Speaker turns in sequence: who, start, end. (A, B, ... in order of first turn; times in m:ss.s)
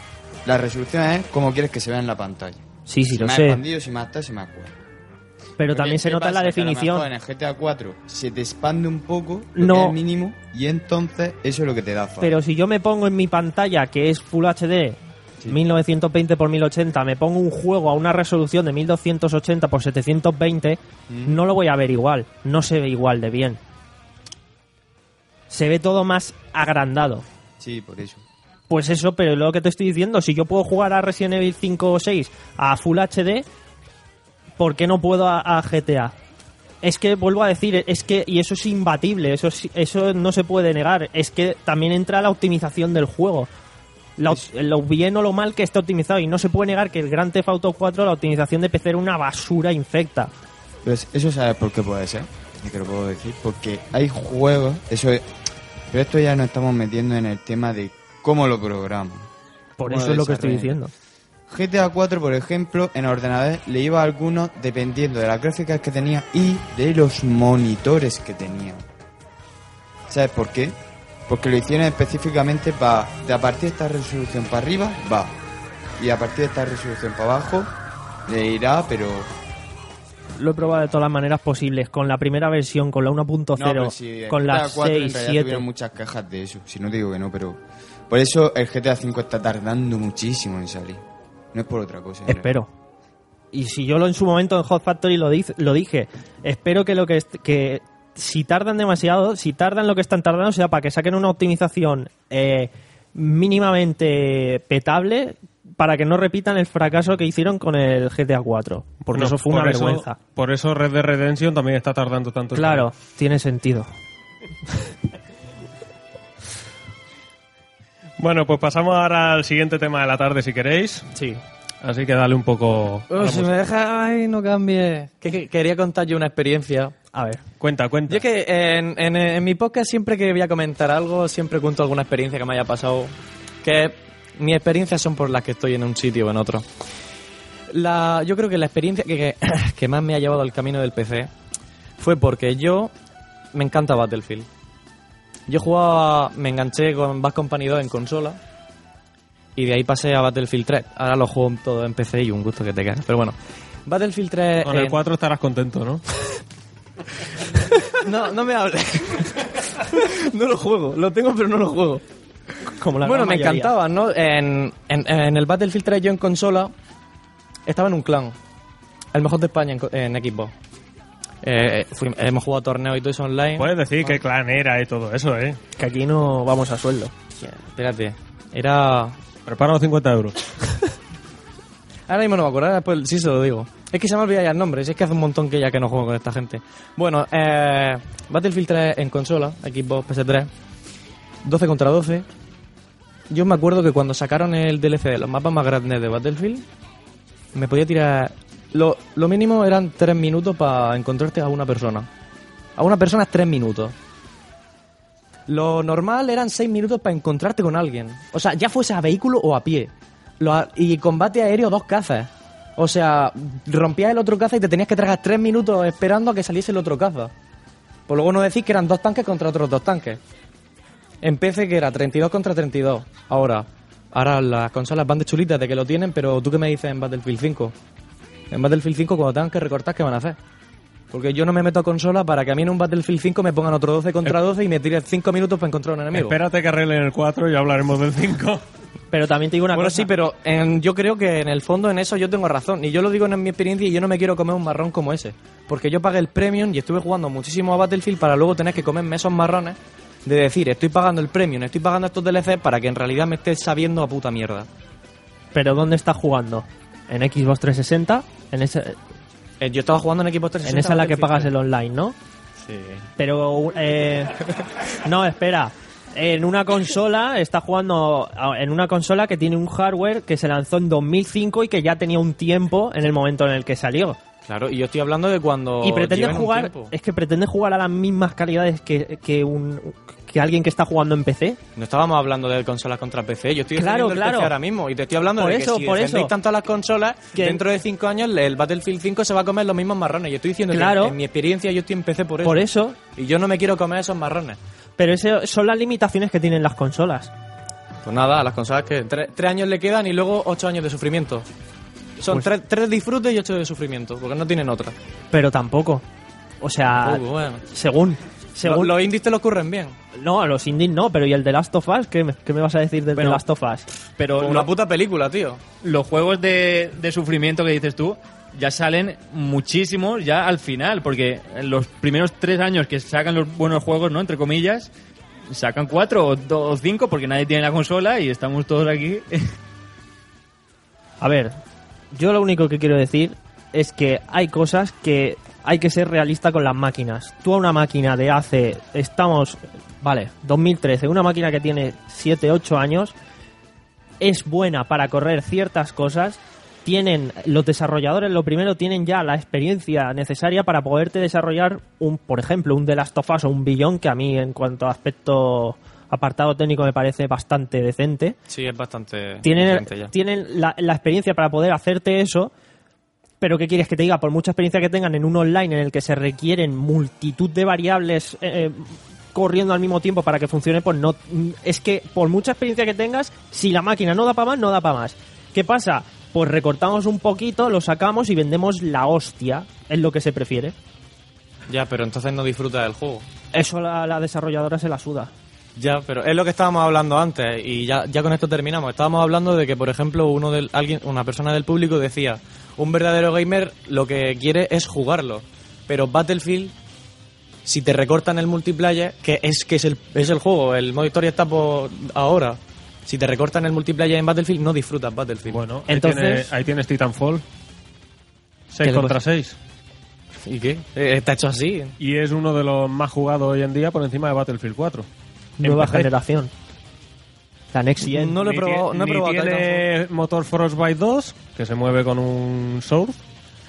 0:00.4-0:04.7 A
0:02.9-0:03.6 B
0:05.6-0:07.1 B
0:05.7-0:12.3 A
0:09.6-0:09.9 B
0:12.2-0:15.0 B
0:15.5-0:23.6 B
0:25.5-0:27.2 B
0:27.6-0:28.2 A
0:28.7-0:33.5 B
0:34.6-0:36.1 B
0:36.8-0:43.5 B
0:44.2-0:50.3 B
0:50.8-0:55.2 A
0:55.9-0:59.3 A
0:59.8-1:00.9 B
0:59.8-1:00.8 A
1:01.5-1:08.8 A
1:10.1-1:10.8 A
1:11.3-1:15.4 A
1:16.0-1:17.7 A
1:18.3-1:19.3 A
1:20.4-1:25.6 B
1:23.5-1:32.5 A
1:32.3-1:32.7 B
1:33.5-1:50.2 B
1:49.0-1:52.9 C
1:52.5-1:53.9 B
1:58.2-2:01.1 C
2:01.8-2:03.5 C
2:03.1-2:07.0 D
2:07.1-2:07.4 B
2:07.6-2:08.2 C
2:08.1-2:16.7 D
2:17.7-2:21.3 D
2:22.0-2:22.9 D
2:23.5-2:24.5 D
2:25.5-2:28.4 D
2:29.6-2:35.0 D
2:34.6-2:36.0 C
2:37.9-2:42.0 D
2:42.8-2:43.7 B
2:43.0-2:46.7 D
2:47.7-2:48.4 D
2:49.1-2:50.5 D
2:51.4-2:54.1 D
2:53.6-2:55.6 C
2:55.8-2:57.1 B
2:57.4-2:59.2 D
2:59.5-3:00.4 C
3:02.1-3:10.5 D
3:11.4-3:12.3 D
3:13.3-3:16.6 D
3:17.5-3:22.1 D
3:22.8-3:23.9 D
3:25.5-3:37.3 D
3:38.1-3:40.2 D
3:41.2-3:47.7 D
3:48.5-3:50.4 D
3:51.1-3:56.4 D
3:56.1-3:58.6 C
3:59.1-4:00.1 B
3:59.7-4:14.7 D
4:15.5-4:19.0 B
4:19.6-4:21.5 D
4:20.6-4:22.2 B
4:22.6-4:23.1 D
4:23.2-4:24.4 B
4:25.0-4:34.2 B
4:34.4-4:36.9 D
4:35.8-4:41.6 B
4:41.8-4:52.6 D
4:43.8-4:44.5 B
4:45.4-4:46.3 B
4:47.4-4:47.6 B
4:50.7-4:51.2 B
4:52.4-4:53.0 B
4:53.2-4:54.6 D
4:55.0-4:57.3 B
4:58.0-5:01.5 D
5:02.2-5:04.9 D
5:05.3-5:06.0 B
5:06.6-5:08.9 B
5:07.0-5:07.6 D
5:08.6-5:10.0 D
5:10.2-5:14.7 B
5:13.2-5:13.4 D
5:14.4-5:15.6 D
5:15.8-5:24.9 E
5:25.5-5:29.5 E
5:31.2-5:31.5 B
5:32.1-5:43.1 B
5:44.2-5:58.4 B
5:58.5-6:00.1 D
5:59.4-6:02.5 B
6:03.4-6:20.8 B
6:21.7-6:23.2 D
6:23.5-6:25.3 B
6:25.8-6:36.7 D
6:37.6-6:45.6 D
6:45.5-6:47.4 C
6:45.9-6:46.5 B
6:48.7-6:49.6 C
6:48.8-6:49.1 B
6:50.4-6:51.9 D
6:52.0-6:55.1 C
6:55.6-6:56.5 B
6:55.6-6:56.1 C
6:57.7-6:58.3 B
6:58.0-6:59.8 D
6:58.4-7:03.2 C